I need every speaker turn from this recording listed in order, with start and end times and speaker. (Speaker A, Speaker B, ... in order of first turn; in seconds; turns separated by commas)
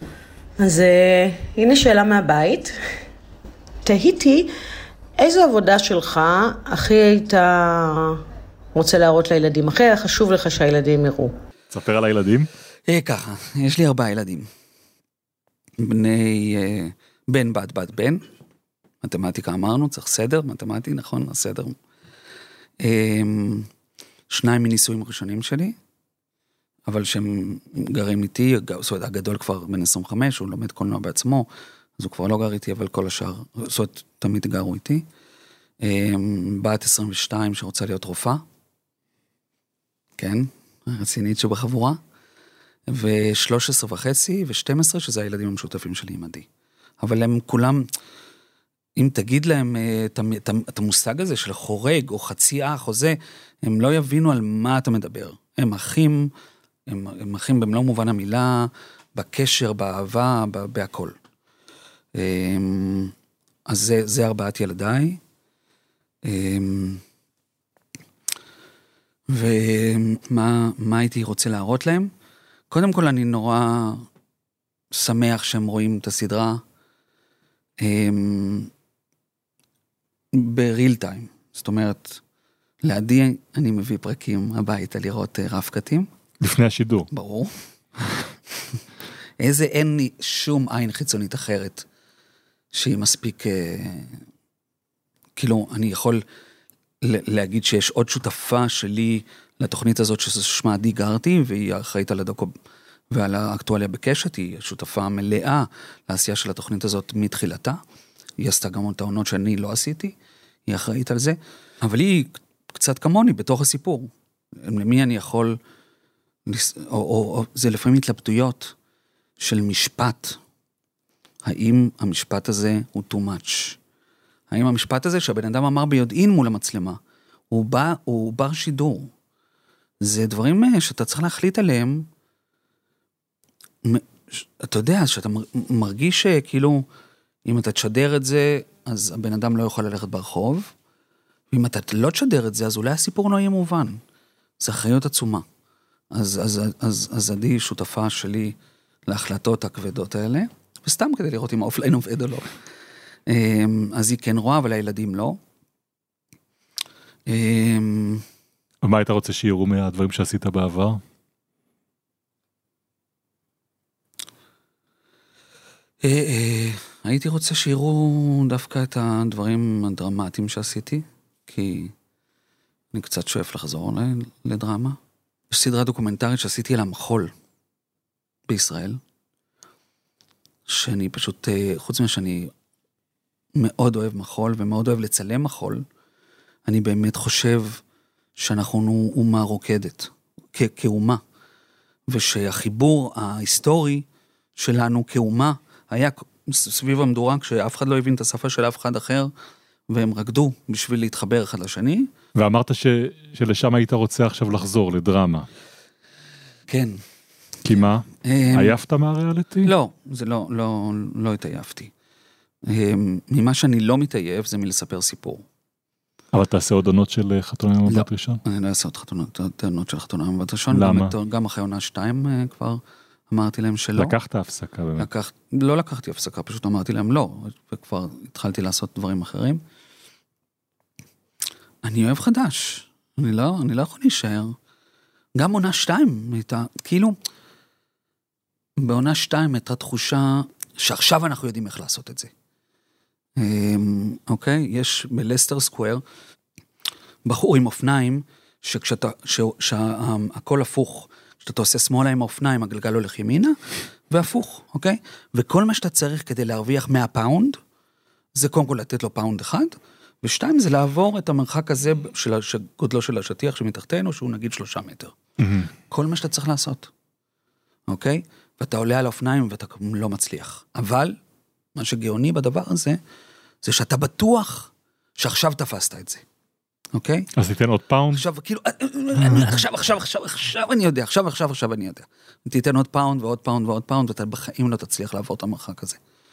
Speaker A: 0.6-2.8, Speaker A: 3.9-4.5, Speaker A: 5.2-8.2, Speaker A: 8.8-11.3, Speaker B: 11.7-12.5, Speaker C: 12.9-14.5, Speaker C: 15.8-18.2, Speaker C: 19.0-21.8, Speaker C: 22.8-23.7, Speaker C: 24.3-25.8, Speaker C: 26.9-35.1, Speaker C: 35.8-38.4, Speaker C: 40.2-42.0, Speaker C: 42.9-46.5, Speaker C: 47.0-47.9, Speaker C: 49.0-56.3, Speaker C: 56.9-61.2, Speaker C: 62.1-63.1, Speaker C: 63.7-65.2, Speaker C: 66.2-67.0, Speaker C: 69.3-72.1, Speaker C: 72.7-74.1, Speaker C: 74.9-76.6, Speaker C: 77.8-78.7, Speaker C: 80.3-82.2, Speaker C: 82.8-86.1, Speaker B: 86.4-87.1, Speaker C: 87.1-87.5, Speaker C: 89.4-91.8, Speaker C: 92.7-94.2, Speaker C: 95.4-96.2, Speaker C: 97.0-102.5, Speaker C: 103.1-107.8, Speaker C: 108.4-110.2, Speaker C: 110.7-114.1, Speaker C: 114.6-115.6, Speaker C: 116.5-118.8, Speaker C: 119.4-120.4, Speaker C: 121.5-123.8, Speaker C: 124.5-127.0, Speaker C: 127.5-129.1, Speaker C: 130.0-132.1, Speaker C: 133.8-136.8, Speaker C: 137.5-140.7, Speaker C: 141.5-144.0, Speaker C: 144.6-145.4, Speaker C: 146.1-148.6, Speaker C: 149.1-152.5, Speaker C: 153.3-155.4, Speaker C: 157.3-158.2, Speaker B: 158.8-161.0, Speaker C: 166.0-171.9, Speaker C: 172.9-175.0, Speaker C: 175.5-177.3, Speaker C: 178.5-179.0, Speaker C: 180.7-182.5, Speaker C: 183.6-185.8, Speaker C: 186.7-187.8, Speaker C: 188.4-191.2, Speaker C: 192.1-194.1, Speaker C: 194.6-199.3, Speaker C: 199.9-202.1, Speaker B: 202.4-205.5, Speaker C: 206.7-207.0, Speaker B: 207.6-209.7, Speaker C: 207.7-208.8, Speaker C: 209.6-211.9, Speaker C: 212.7-215.4, Speaker B: 216.3-218.4, Speaker C: 217.9-224.2, Speaker B: 220.7-221.1, Speaker B: 223.9-225.1, Speaker C: 225.0-229.6, Speaker C: 231.8-234.6, Speaker C: 235.4-237.2, Speaker C: 238.8-242.3, Speaker C: 243.4-246.0, Speaker C: 247.2-253.6, Speaker C: 254.1-257.6, Speaker C: 258.4-265.1, Speaker B: 265.4-265.7, Speaker C: 265.9-266.9, Speaker C: 267.9-271.2, Speaker C: 271.8-273.0, Speaker C: 273.6-276.2, Speaker C: 276.9-277.3, Speaker B: 277.4-278.2, Speaker C: 278.1-286.0, Speaker B: 279.2-279.6